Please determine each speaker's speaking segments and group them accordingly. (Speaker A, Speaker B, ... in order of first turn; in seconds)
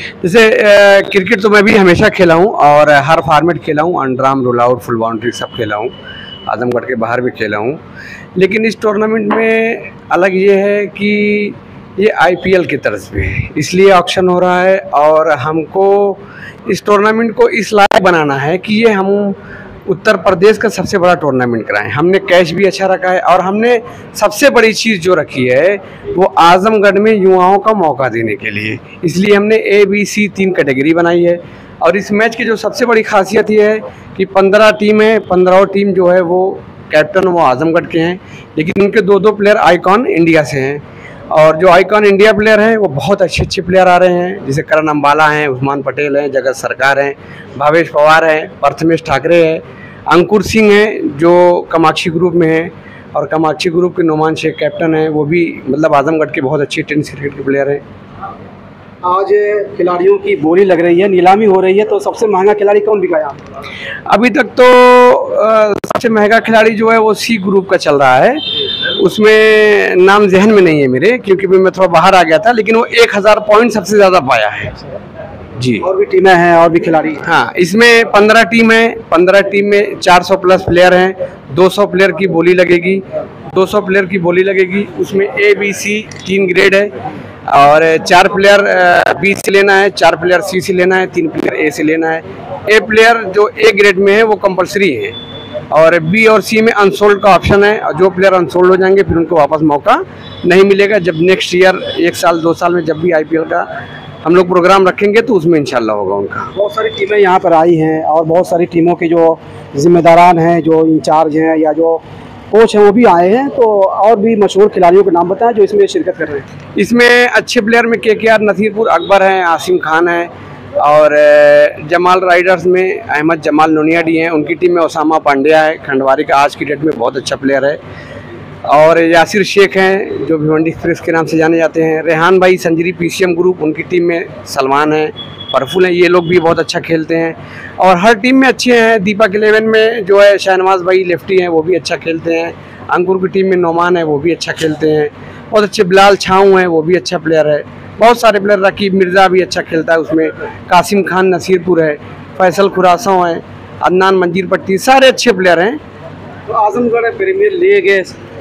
Speaker A: 0.2-5.9, 6.5-7.8, 8.3-19.3, 19.9-57.8, 64.1-68.4, 69.0-74.8, 75.6-75.8, 77.2-86.9, 87.5-95.2, 95.7-103.7, 104.2-106.5, 116.8-127.8, 128.7-155.8
Speaker B: 59.0-63.4, 75.8-77.2, 106.5-116.4, 156.5-158.1